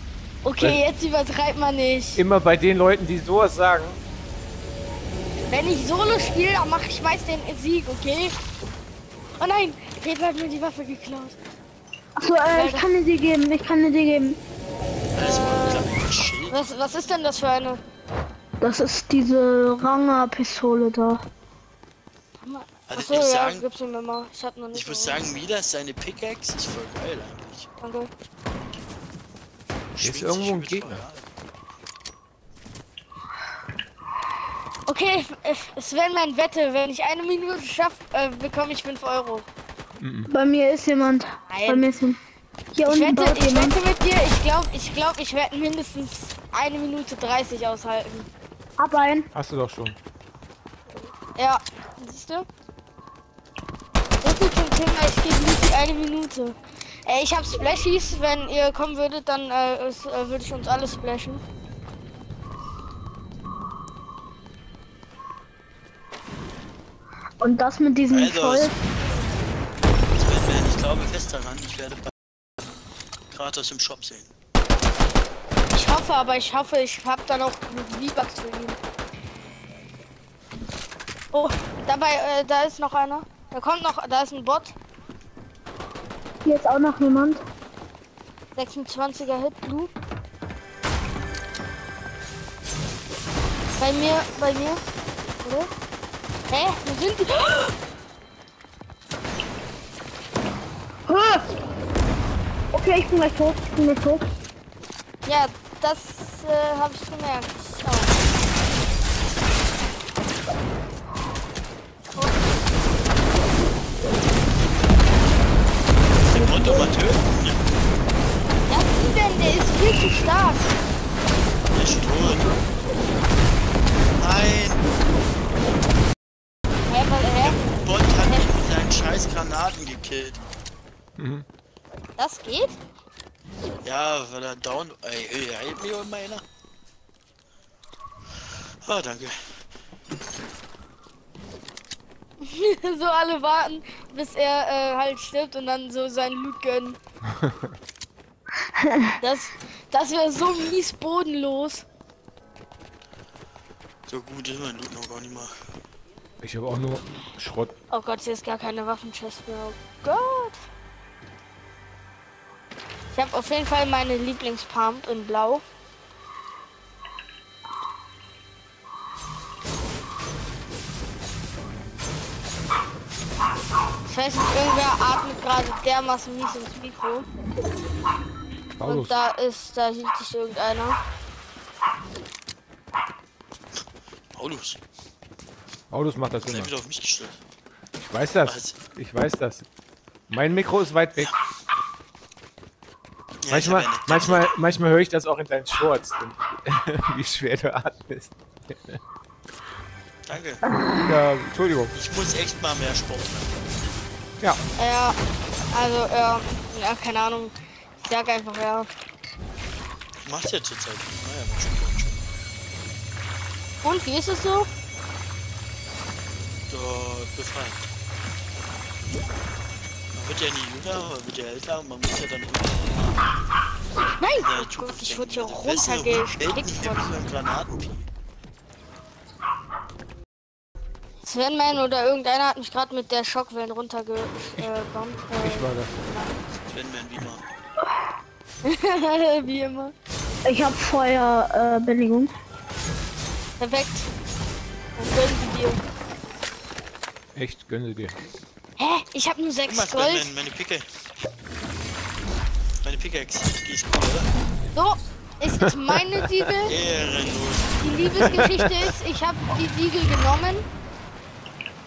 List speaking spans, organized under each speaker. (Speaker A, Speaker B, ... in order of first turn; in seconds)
Speaker A: 0.4-2.2, 5.5-8.3, 9.4-11.4, 12.5-12.8, 15.2-15.9, 16.5-17.8, 22.4-25.2, 27.8-28.1, 34.9-39.5, 41.5-41.9, 42.9-48.3, 51.4-52.5, 54.2-61.4, 75.7-78.8, 81.3-84.7, 88.5-89.9, 93.8-94.8, 95.4-95.7, 96.5-97.7, 105.2-108.1, 112.1-112.4, 118.7-120.8, 126.9-128.5, 132.2-132.8, 142.4-147.0, 149.2-151.8, 157.9-160.6, 163.1-165.6, 174.0-177.2, 178.8-181.0, 204.8-205.1, 205.7-208.9, 213.8-214.7, 224.2-227.2, 231.2-236.3, 238.6-239.9, 243.6-244.1, 244.9-245.8, 248.8-250.3, 254.7-256.7, 257.8-260.6
Speaker B: 2.1-4.0, 30.0-31.0, 40.0-40.3, 49.3-50.0, 131.2-131.4, 147.4-147.7, 156.4-157.7, 178.8-179.2, 185.9-186.7, 188.0-189.7, 190.3-191.3, 193.5-199.0, 201.0-201.9, 235.4-235.9, 247.3-248.2, 255.9-256.3, 258.3-258.6
Speaker C: 12.2-14.4, 18.6-21.2, 40.3-42.2, 42.7-43.8, 48.8-49.3, 67.4-68.7, 86.4-87.4, 101.1-101.4, 102.7-104.2, 148.8-149.1, 240.4-242.3
Speaker D: 15.2-16.6, 22.9-23.6, 24.7-27.7, 29.9-31.3, 68.1-68.8, 70.1-72.1, 73.3-74.3, 116.2-117.6, 121.7-122.5, 124.2-124.8, 127.4-130.4, 133.8-136.4, 138.8-139.3, 154.1-155.5, 184.3-184.8, 186.4-187.4, 188.4-188.8, 193.4-194.5, 200.2-200.6, 201.9-203.6, 210.2-212.2, 216.7-217.8, 220.1-223.2, 224.3-228.1, 236.7-237.4, 249.7-250.8, 252.8-254.3, 256.6-258.4